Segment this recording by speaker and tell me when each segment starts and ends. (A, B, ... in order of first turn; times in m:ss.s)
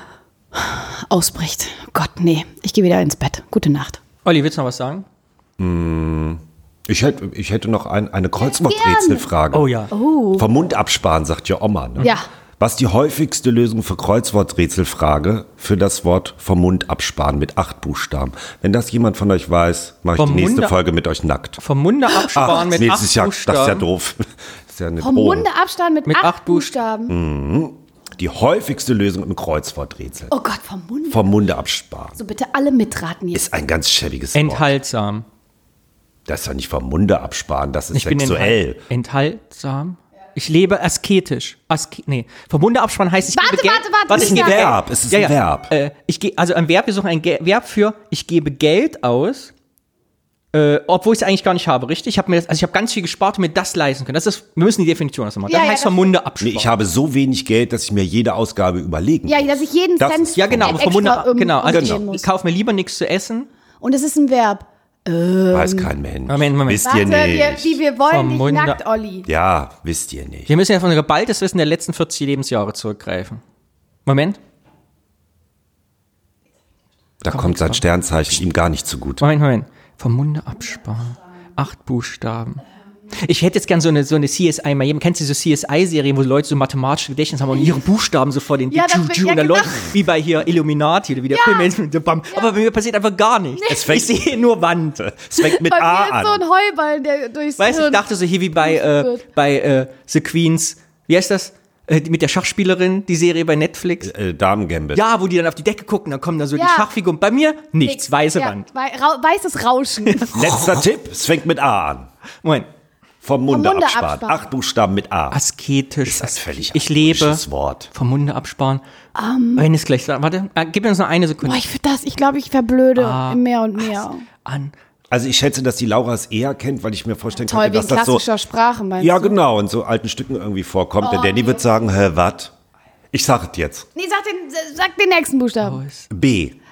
0:00.5-0:04.0 A
0:04.2-0:05.1 B
0:05.6-0:09.7 C
0:08.4-0:09.3 A
0:09.5-0:09.9 B
0:09.9-0:10.5 A
0:10.3-0:21.6 C
0:12.0-0:12.3 A
0:20.2-0:20.8 B
0:21.6-0:23.9 B
0:22.3-0:25.5 C
0:25.0-0:27.2 A
0:26.1-0:26.7 B
0:27.1-0:30.4 C
0:30.3-0:31.3 A
0:31.1-0:32.2 C
0:32.2-0:33.5 A
0:33.3-0:34.7 C
0:34.4-0:35.2 B
0:36.3-0:38.8 C
0:37.9-0:49.5 B
0:43.3-0:44.8 A
0:44.1-0:45.7 C
0:50.5-0:56.7 B
0:55.5-0:56.2 A
0:56.4-1:01.1 C
0:59.3-1:02.2 A
1:00.4-1:03.5 B
1:01.7-1:02.0 C
1:03.8-1:05.9 A
1:05.5-1:07.8 C
1:06.3-1:06.9 B
1:06.8-1:09.3 A
1:08.1-1:08.8 B
1:09.3-1:10.5 C
1:10.5-1:13.4 B
1:14.1-1:14.4 B
1:17.2-1:19.2 C
1:17.3-1:17.8 B
1:19.2-1:35.1 B
1:28.7-1:29.9 A
1:31.3-1:31.7 A
1:33.6-1:34.0 A
1:33.7-1:34.3 C
1:35.0-1:36.4 C
1:35.4-1:39.2 A
1:37.6-1:44.1 B
1:44.0-1:45.0 C
1:45.0-1:48.6 B
1:46.6-1:46.9 A
1:47.8-1:50.5 A
1:50.1-1:50.4 B
1:50.4-1:52.1 C
1:52.4-1:52.7 B
1:53.2-1:55.4 C
1:53.5-1:54.4 A
1:55.3-1:58.8 B
1:56.1-1:57.9 C
1:59.2-1:59.7 A
1:59.6-2:01.6 B
2:01.4-2:04.2 A
2:03.0-2:04.7 B
2:05.1-2:08.2 C
2:07.4-2:09.4 A
2:09.0-2:12.5 C
2:11.0-2:11.6 A
2:13.1-2:13.9 C
2:14.0-2:15.8 A
2:15.6-2:16.1 B
2:16.1-2:16.6 C